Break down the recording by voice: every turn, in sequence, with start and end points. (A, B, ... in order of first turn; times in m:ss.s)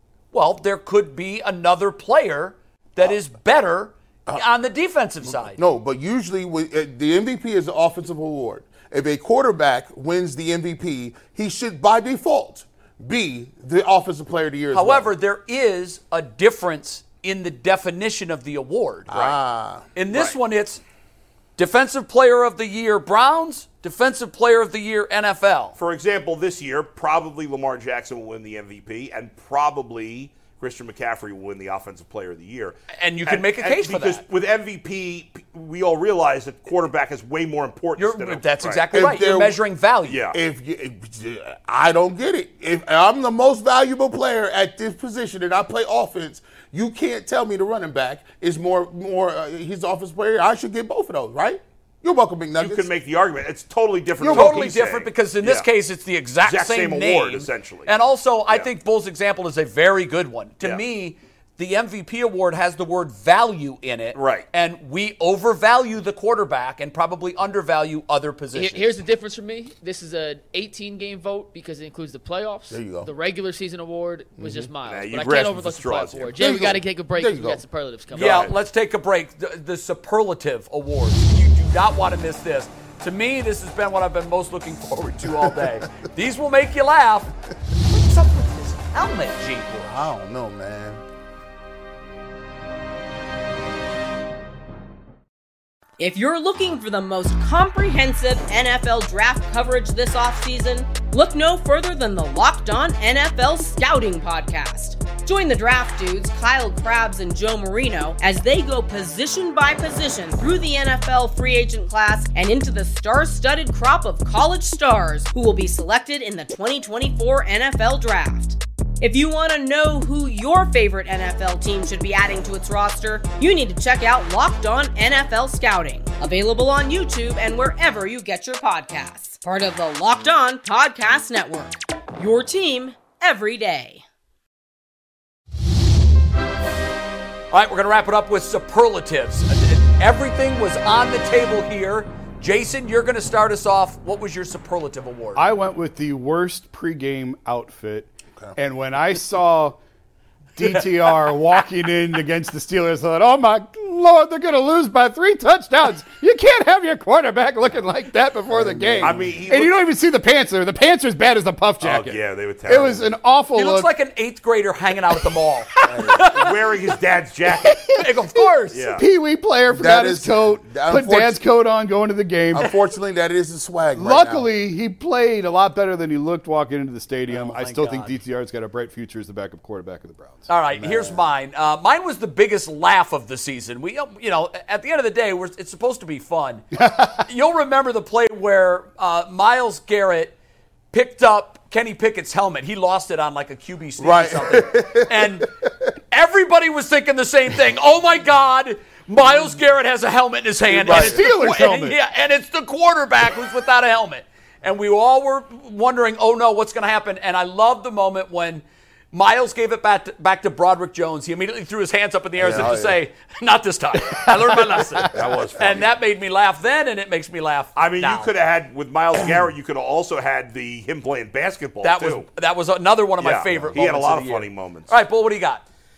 0:00.3-0:05.6 A
0:05.2-0:15.1 B
0:14.7-0:19.4 A
0:19.1-0:19.9 B
0:19.9-0:20.8 A
0:21.6-0:25.7 A
0:25.8-0:38.8 C
0:32.9-0:34.2 A
0:38.0-0:40.2 A
0:38.9-0:39.6 B
0:40.0-0:40.4 C
0:40.3-0:52.9 B
0:52.6-0:55.7 C
0:54.2-0:54.7 B
0:54.3-1:08.9 A
0:56.4-0:57.9 C
1:04.1-1:04.4 C
1:08.5-1:18.5 D
1:12.7-1:13.1 B
1:14.4-1:14.7 B
1:14.8-1:16.3 C
1:16.4-1:17.6 B
1:18.1-1:27.3 A
1:18.1-1:18.5 C
1:25.2-1:25.8 B
1:27.8-1:30.0 A
1:29.8-1:31.0 B
1:36.0-2:14.0 E
2:17.5-2:25.5 A
2:25.4-2:29.8 F
2:30.6-2:43.9 F
2:30.6-2:31.6 A
2:38.5-2:39.3 B
2:39.0-2:39.8 C
2:41.8-2:43.1 C
2:43.5-2:46.5 A
2:45.8-2:46.3 B
2:46.3-2:48.0 C
2:47.6-2:52.7 F
2:48.0-2:49.0 A
2:48.7-2:49.0 C
2:49.7-2:51.4 B
2:52.5-2:54.5 B
2:54.0-3:01.1 F
2:57.3-2:58.2 A
3:00.5-3:10.4 A
3:00.8-3:01.2 B
3:06.7-3:07.2 F
3:10.9-3:15.5 A
3:14.0-3:15.7 B
3:16.1-3:38.3 A
3:20.7-3:22.0 F
3:20.7-3:21.2 B
3:32.4-3:33.0 B
3:35.1-3:35.9 C
3:37.7-3:42.3 C
3:41.8-3:45.6 A
3:43.2-3:44.9 C